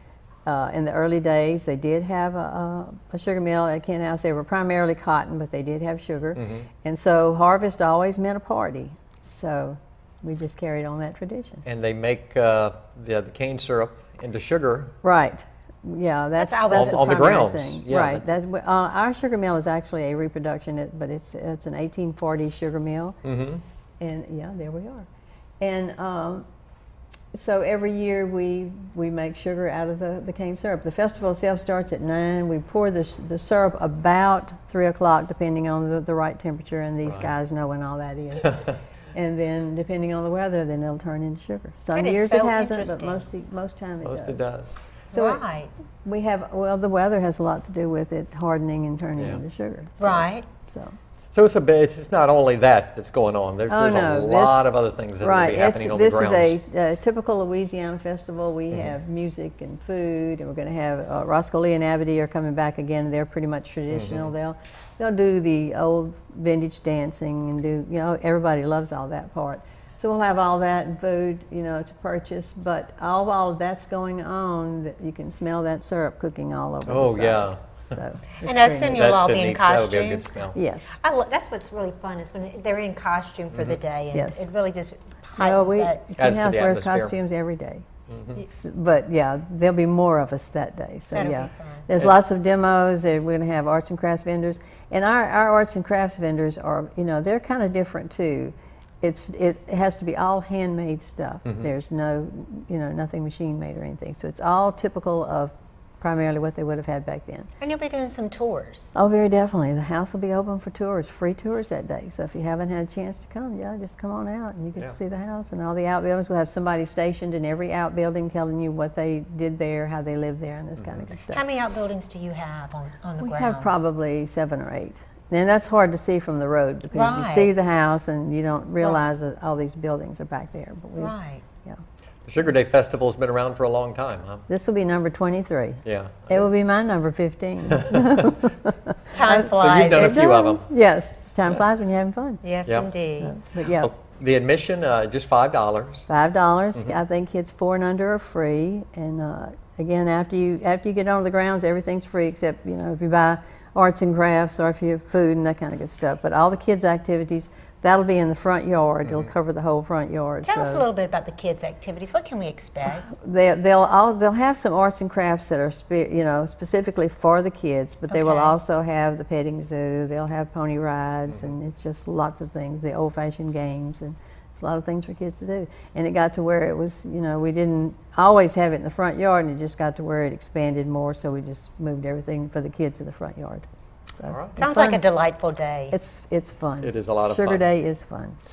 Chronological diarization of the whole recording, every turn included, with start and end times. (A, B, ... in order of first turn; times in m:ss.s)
0:00.5-0:11.6 A
0:06.4-0:06.7 B
0:11.6-0:14.9 B
0:15.0-0:23.2 A
0:16.4-0:17.1 C
0:16.7-0:18.2 B
0:23.2-0:23.6 B
0:24.0-0:25.1 A
0:25.6-0:26.5 A
0:27.3-0:44.5 A
0:41.9-0:43.3 C
0:44.0-0:44.7 B
0:45.1-0:45.4 A
0:45.1-0:45.7 C
0:46.0-0:50.9 A
0:49.2-0:49.4 B
0:50.0-0:50.5 C
0:51.3-0:56.6 B
0:53.7-1:19.1 A
1:03.9-1:04.3 B
1:16.9-1:17.6 B
1:18.4-1:20.4 C
1:18.9-1:20.6 B
1:20.5-1:21.0 A
1:20.9-1:26.1 C
1:24.1-1:24.5 A
1:25.4-1:27.8 A
1:26.2-1:27.1 B
1:28.1-1:28.4 B
1:28.4-1:47.5 A
1:31.1-1:31.9 C
1:47.6-1:48.9 C
1:48.9-2:01.4 A
2:00.8-2:01.1 B
2:01.3-2:03.9 C
2:03.2-2:11.8 A
2:06.9-2:07.5 C
2:11.0-2:11.4 C
2:12.2-2:14.5 B
2:14.5-2:22.4 A
2:15.8-2:16.4 B
2:19.1-2:20.2 C
2:19.4-2:20.7 B
2:22.4-2:23.4 C
2:23.2-2:23.9 A
2:23.7-2:26.1 B
2:26.1-2:40.9 A
2:40.4-2:43.1 C
2:43.1-3:05.0 A
2:48.1-2:48.6 C
3:04.3-3:04.6 B
3:04.6-3:06.0 C
3:05.9-3:08.4 A
3:06.8-3:07.6 B